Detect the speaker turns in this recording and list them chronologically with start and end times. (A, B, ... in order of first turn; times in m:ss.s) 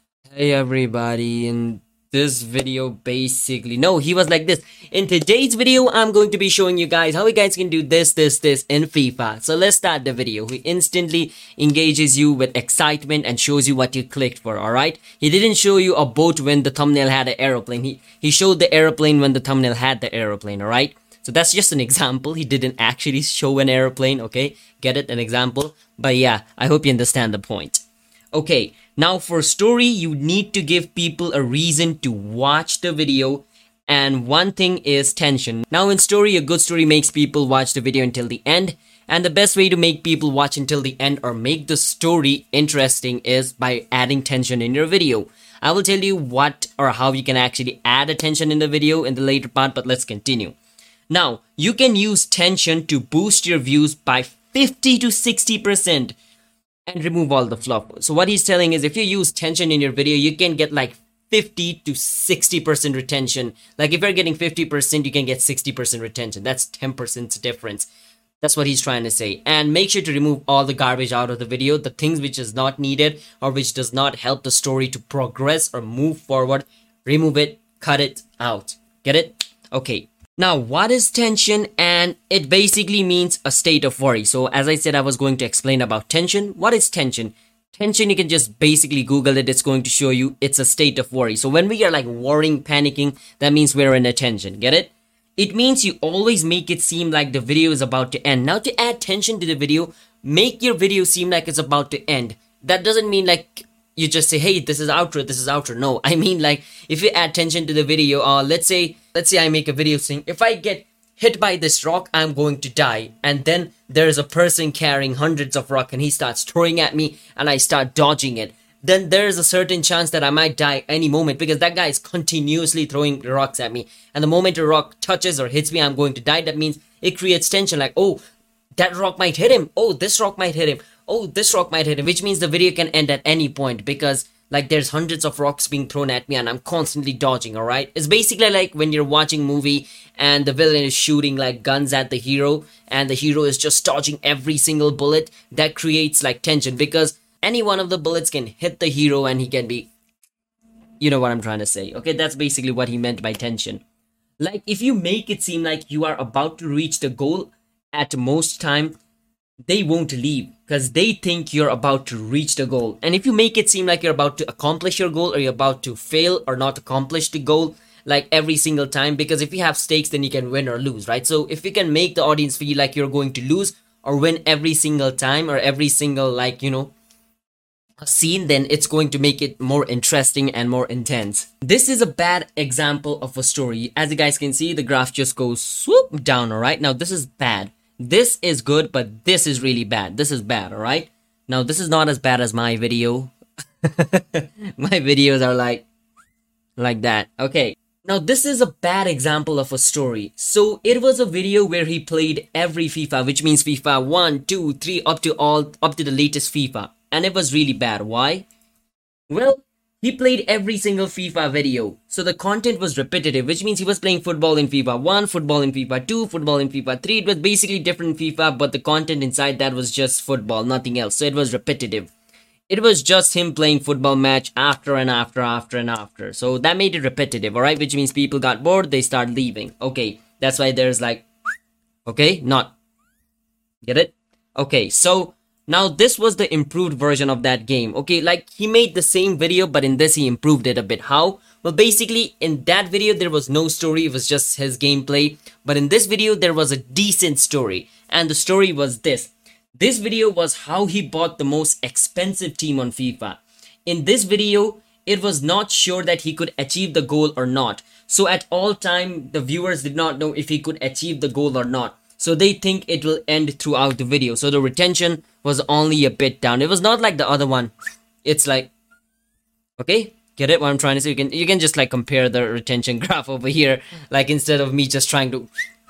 0:00.3-0:50.6 A
0:51.1-0:56.2 A
0:56.9-1:07.9 A
1:08.4-2:08.2 A
2:08.8-2:29.9 A
2:31.0-2:33.8 A
2:34.4-2:39.0 A
2:39.6-2:56.9 A
2:58.0-3:15.8 A
3:16.8-3:28.5 A
3:29.3-3:42.1 A
3:42.7-3:51.3 A
3:52.0-3:52.7 A
3:53.8-4:27.7 A
4:28.2-4:28.7 A
4:29.8-4:35.5 A